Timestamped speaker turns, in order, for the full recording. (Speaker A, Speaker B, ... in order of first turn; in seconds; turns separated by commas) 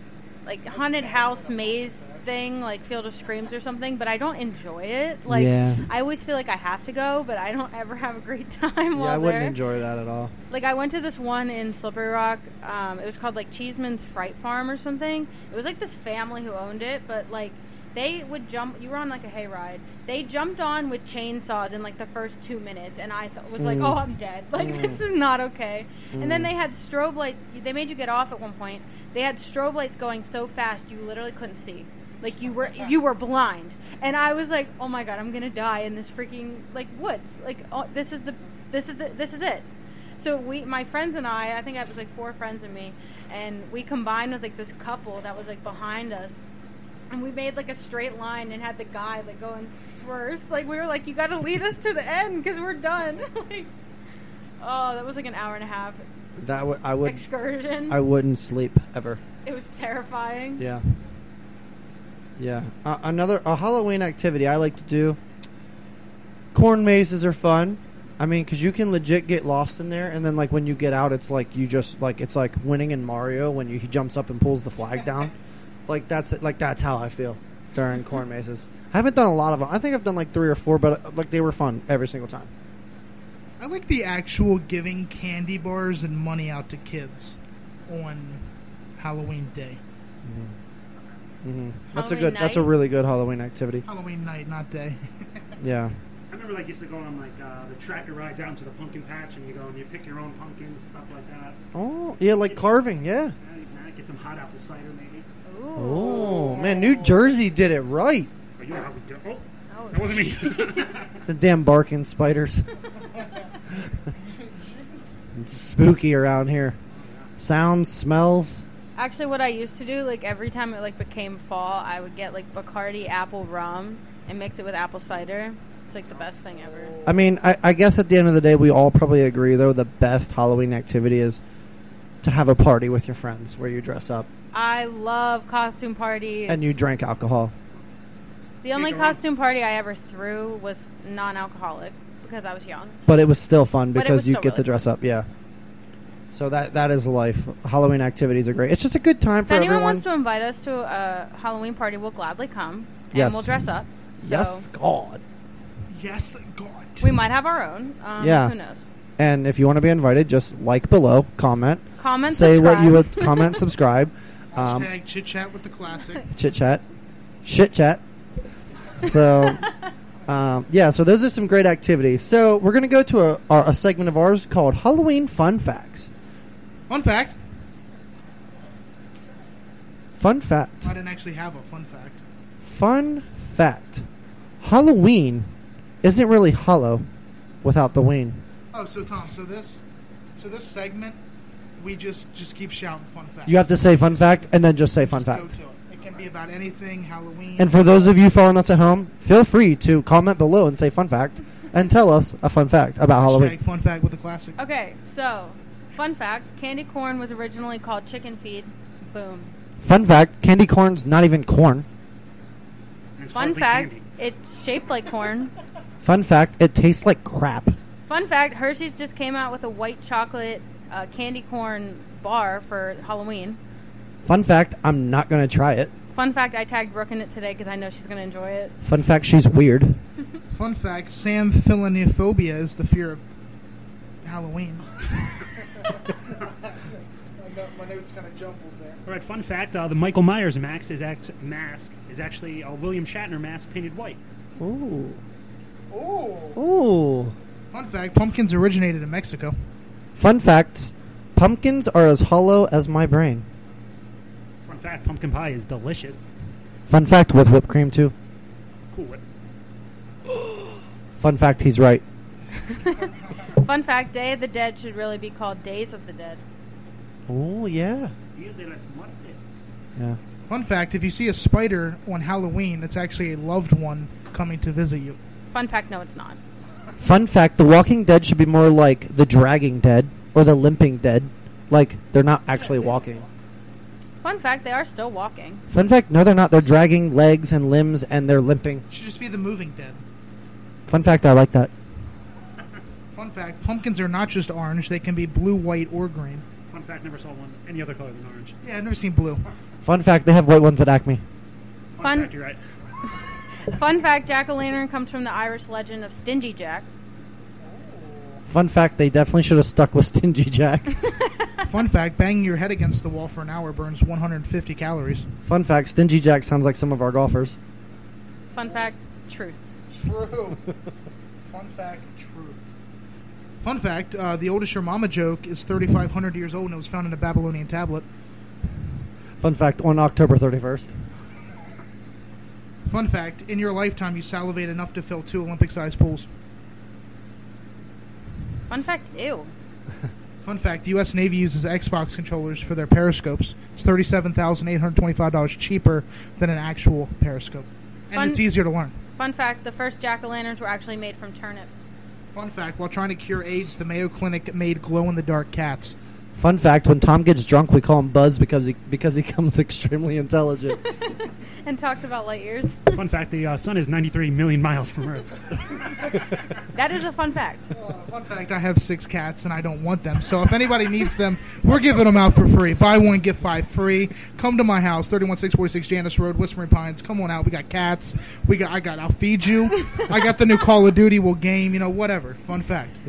Speaker A: 0.4-9.6, Speaker B: 0.7-2.3, Speaker C: 5.3-5.9, Speaker C: 8.9-10.3, Speaker A: 10.5-39.7, Speaker C: 23.6-24.0, Speaker C: 24.5-25.0, Speaker C: 26.1-26.5, Speaker A: 40.2-46.4, Speaker A: 47.1-53.7, Speaker A: 54.6-56.0, Speaker C: 56.4-57.2, Speaker A: 57.0-58.0, Speaker C: 57.9-59.2, Speaker A: 59.4-60.6, Speaker C: 60.6-60.9, Speaker C: 62.4-65.2, Speaker C: 66.5-75.3, Speaker C: 75.9-82.5, Speaker B: 83.6-89.8, Speaker C: 90.2-90.6, Speaker C: 91.4-93.8, Speaker A: 91.9-92.7, Speaker B: 93.8-95.5, Speaker C: 95.6-96.0, Speaker D: 96.3-101.6, Speaker C: 101.7-103.3, Speaker D: 103.4-105.3, Speaker A: 105.4-106.6, Speaker C: 105.8-108.3, Speaker D: 106.2-107.2, Speaker D: 108.6-111.2, Speaker A: 109.7-111.0, Speaker C: 111.2-112.7, Speaker B: 114.1-115.2, Speaker C: 115.3-116.8, Speaker D: 116.9-117.3, Speaker C: 117.4-118.6, Speaker A: 119.0-126.9, Speaker C: 127.0-131.4, Speaker C: 132.2-134.3, Speaker A: 134.5-136.8, Speaker C: 136.5-137.5, Speaker A: 138.6-143.0, Speaker D: 138.7-139.2, Speaker C: 143.1-145.3, Speaker A: 143.9-144.7, Speaker C: 146.3-150.0, Speaker A: 149.4-154.6, Speaker C: 153.1-153.5, Speaker C: 154.2-155.2, Speaker B: 155.9-157.2, Speaker A: 157.0-158.8, Speaker C: 158.2-158.6, Speaker C: 159.2-164.9, Speaker A: 162.0-163.6, Speaker B: 164.6-166.2, Speaker C: 166.3-166.8, Speaker C: 167.4-168.0, Speaker C: 168.9-169.7, Speaker C: 170.2-176.1, Speaker B: 176.9-177.4, Speaker C: 180.1-180.9, Speaker B: 180.8-182.2, Speaker C: 182.6-184.1, Speaker C: 184.6-185.5, Speaker C: 186.0-187.1, Speaker C: 187.6-188.4, Speaker B: 188.7-189.8, Speaker B: 190.3-191.2, Speaker B: 191.8-193.7, Speaker C: 193.4-195.5, Speaker B: 195.0-197.7, Speaker C: 197.6-203.6, Speaker B: 203.2-204.6, Speaker A: 204.6-209.5, Speaker C: 209.8-211.9, Speaker D: 213.2-214.0, Speaker A: 213.3-215.5, Speaker C: 216.0-217.8, Speaker A: 218.1-223.6, Speaker C: 224.2-225.9, Speaker A: 226.1-228.8, Speaker C: 228.8-230.0, Speaker B: 230.5-233.2, Speaker B: 234.2-236.7, Speaker B: 237.4-239.0, Speaker D: 239.1-244.2, Speaker C: 244.6-245.2, Speaker B: 245.9-246.6, Speaker C: 246.5-247.3, Speaker B: 247.7-249.5, Speaker C: 250.2-253.4, Speaker D: 254.6-256.2, Speaker C: 256.9-258.1, Speaker D: 258.9-259.2, Speaker C: 261.1-262.0, Speaker A: 262.6-266.4, Speaker C: 267.3-268.1, Speaker D: 268.3-269.4, Speaker B: 270.5-275.2, Speaker A: 275.5-276.4, Speaker C: 277.0-283.3, Speaker A: 284.2-285.6, Speaker C: 285.7-288.8, Speaker B: 288.9-290.0, Speaker C: 290.9-291.7, Speaker B: 293.1-296.4, Speaker D: 296.7-298.6, Speaker B: 298.6-299.4, Speaker C: 299.8-301.2, Speaker D: 301.9-302.6, Speaker A: 302.0-302.3, Speaker A: 303.6-306.9, Speaker B: 307.6-308.4, Speaker C: 308.5-311.0, Speaker A: 311.2-311.5, Speaker B: 311.6-315.3, Speaker C: 315.4-317.6, Speaker A: 318.5-319.7, Speaker B: 319.9-320.6, Speaker B: 321.4-322.7, Speaker B: 323.6-328.0, Speaker C: 329.4-331.0, Speaker B: 332.9-336.3, Speaker A: 338.7-339.5, Speaker B: 340.4-348.9, Speaker A: 348.1-348.4, Speaker A: 349.1-351.8, Speaker B: 352.3-355.9, Speaker C: 356.3-360.8, Speaker A: 360.8-363.0, Speaker D: 362.9-365.6, Speaker A: 366.6-367.7, Speaker B: 367.7-383.0